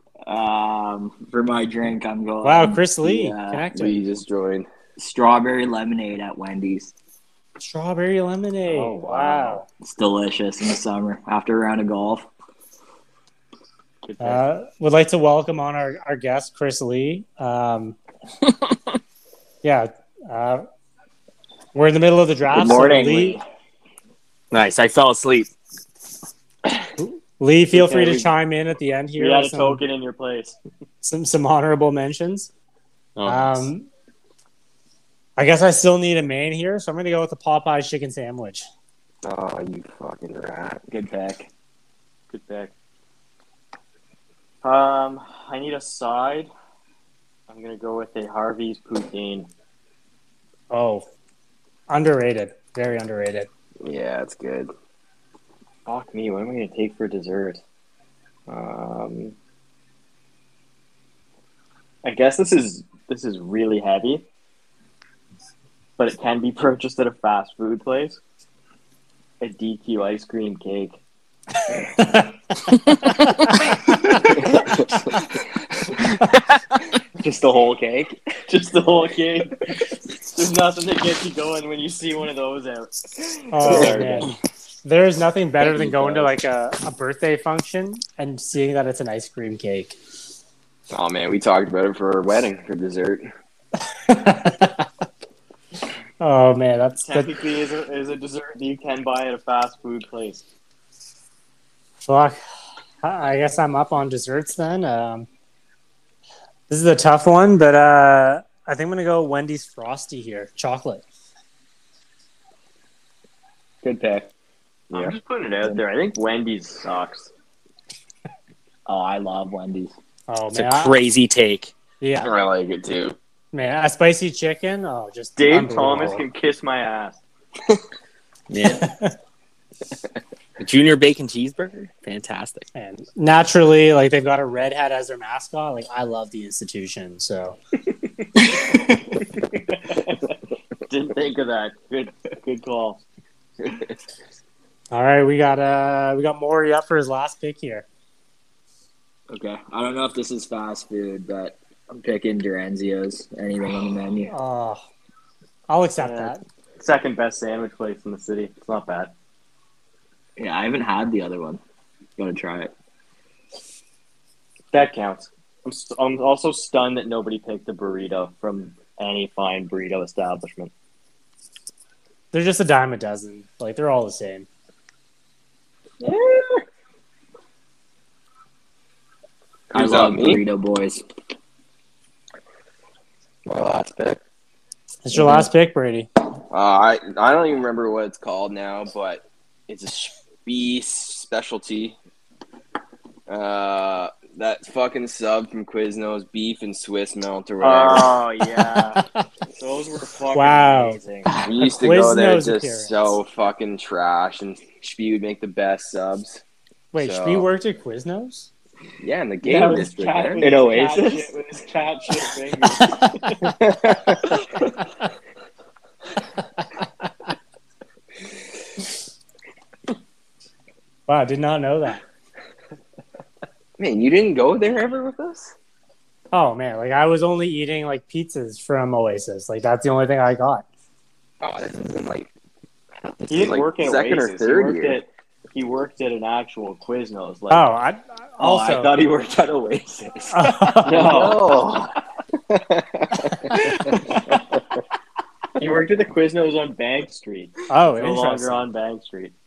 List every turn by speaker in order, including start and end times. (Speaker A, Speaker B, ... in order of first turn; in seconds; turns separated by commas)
Speaker A: 0.3-3.7, Speaker B: 2.4-4.0, Speaker C: 3.7-4.7, Speaker A: 5.0-6.9, Speaker B: 7.6-9.7, Speaker D: 8.7-9.5, Speaker A: 9.8-12.3, Speaker D: 14.1-14.4, Speaker B: 14.2-18.0, Speaker B: 19.6-20.7, Speaker B: 21.7-23.4, Speaker A: 22.5-23.4, Speaker E: 24.5-25.5, Speaker B: 27.0-29.8, Speaker D: 27.7-28.3, Speaker D: 29.2-30.6, Speaker B: 31.0-32.5, Speaker E: 33.2-33.7, Speaker B: 33.2-33.9, Speaker B: 35.4-38.7, Speaker C: 39.2-40.8, Speaker A: 40.9-41.5, Speaker D: 42.3-42.7, Speaker D: 44.6-46.5, Speaker D: 47.5-49.5, Speaker B: 50.7-51.1, Speaker B: 51.9-53.5, Speaker C: 53.8-54.7, Speaker D: 55.9-57.6, Speaker D: 58.5-59.4, Speaker D: 62.0-64.2, Speaker D: 66.0-68.2, Speaker D: 69.4-71.0, Speaker B: 73.1-73.5, Speaker A: 77.2-78.3, Speaker D: 78.5-79.6, Speaker D: 80.2-84.3, Speaker B: 83.5-84.3, Speaker B: 84.8-90.0, Speaker C: 90.9-93.3, Speaker B: 94.1-94.9, Speaker B: 96.2-97.3, Speaker D: 97.0-100.4, Speaker B: 102.0-102.4, Speaker B: 103.0-105.3, Speaker B: 106.7-111.0, Speaker A: 113.8-114.3, Speaker D: 114.9-117.3, Speaker A: 118.9-119.9, Speaker B: 120.3-121.0, Speaker E: 120.5-121.7, Speaker B: 122.0-122.3, Speaker C: 122.2-123.2, Speaker B: 123.5-126.2, Speaker D: 125.4-127.2, Speaker E: 128.5-128.9, Speaker B: 128.6-129.2, Speaker E: 130.6-132.7, Speaker B: 132.7-137.6, Speaker D: 139.9-140.2, Speaker D: 140.9-143.0, Speaker B: 144.9-147.9, Speaker A: 149.3-154.3, Speaker B: 154.3-154.8, Speaker B: 155.7-156.4, Speaker D: 156.0-159.1, Speaker A: 160.4-161.6, Speaker A: 162.2-162.7, Speaker D: 164.7-170.7, Speaker B: 172.3-174.5, Speaker C: 176.0-176.6, Speaker C: 179.7-180.4, Speaker A: 179.7-181.0, Speaker C: 183.5-184.2, Speaker B: 185.1-186.1, Speaker C: 186.5-192.0, Speaker C: 193.3-198.1, Speaker D: 197.6-199.0, Speaker B: 198.5-199.2, Speaker D: 199.6-201.3, Speaker B: 200.3-203.1, Speaker C: 201.4-206.4, Speaker B: 206.9-208.5, Speaker C: 207.0-207.5, Speaker C: 209.0-210.5, Speaker A: 209.4-212.8, Speaker D: 210.4-213.5, Speaker C: 213.4-214.3, Speaker B: 221.1-222.0, Speaker C: 223.8-225.5, Speaker B: 226.3-230.7, Speaker C: 231.4-232.3, Speaker C: 233.1-235.0, Speaker D: 233.3-237.7, Speaker B: 237.5-238.9, Speaker A: 238.4-241.2, Speaker B: 240.3-241.2, Speaker D: 240.8-241.5, Speaker C: 241.0-241.9, Speaker C: 242.5-243.8, Speaker A: 243.5-244.2, Speaker D: 245.6-249.3, Speaker B: 247.7-248.7